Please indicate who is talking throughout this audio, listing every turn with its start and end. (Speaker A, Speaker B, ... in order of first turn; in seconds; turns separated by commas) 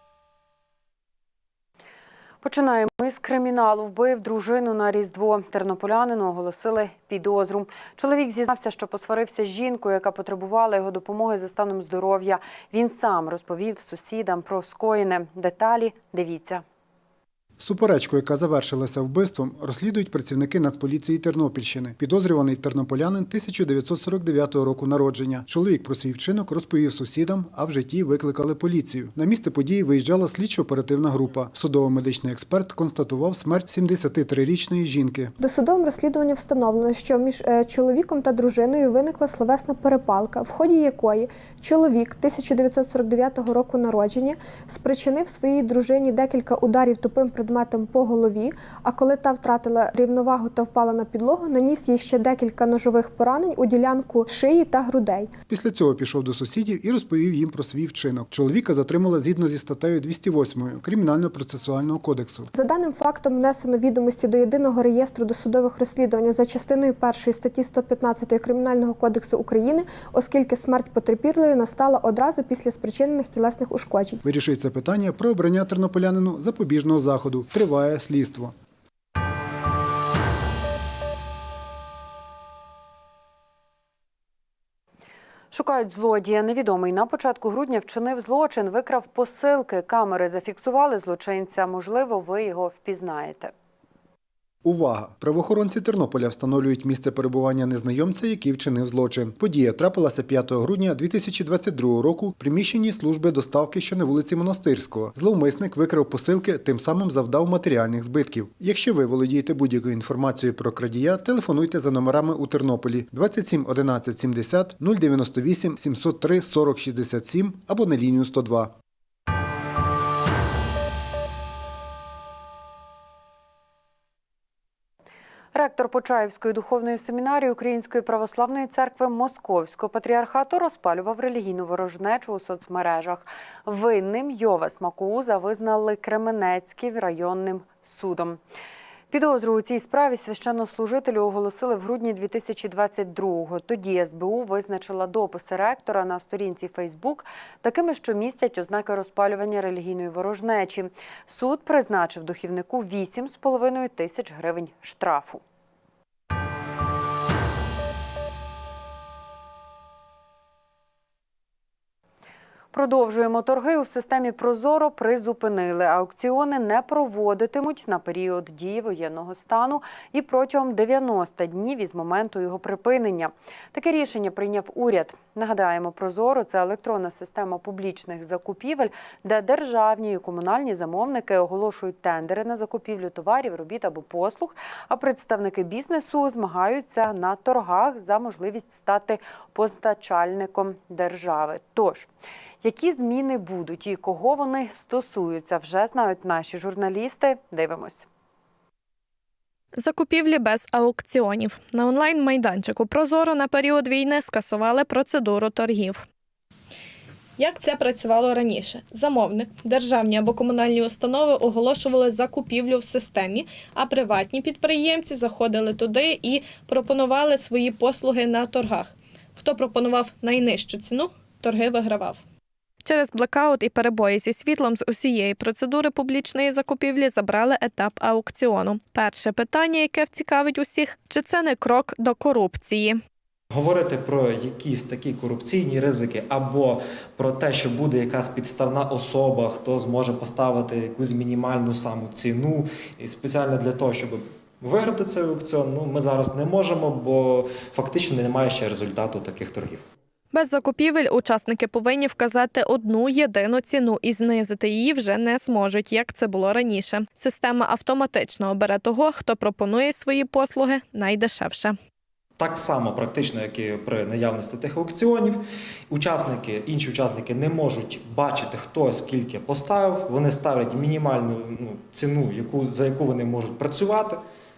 Speaker A: 2.4-16.6, Speaker B: 17.6-35.3, Speaker C: 35.4-55.3, Speaker B: 55.5-62.5, Speaker C: 62.5-74.2, Speaker B: 74.2-78.5, Speaker A: 85.5-93.5, Speaker B: 94.6-118.7, Speaker A: 125.5-138.4, Speaker A: 139.1-155.4, Speaker A: 162.7-192.1, Speaker A: 192.6-198.1, Speaker D: 199.8-206.1, Speaker D: 207.4-222.2, Speaker D: 222.8-233.0, Speaker E: 233.5-249.8, Speaker D: 250.3-261.8, Speaker E: 262.4-274.2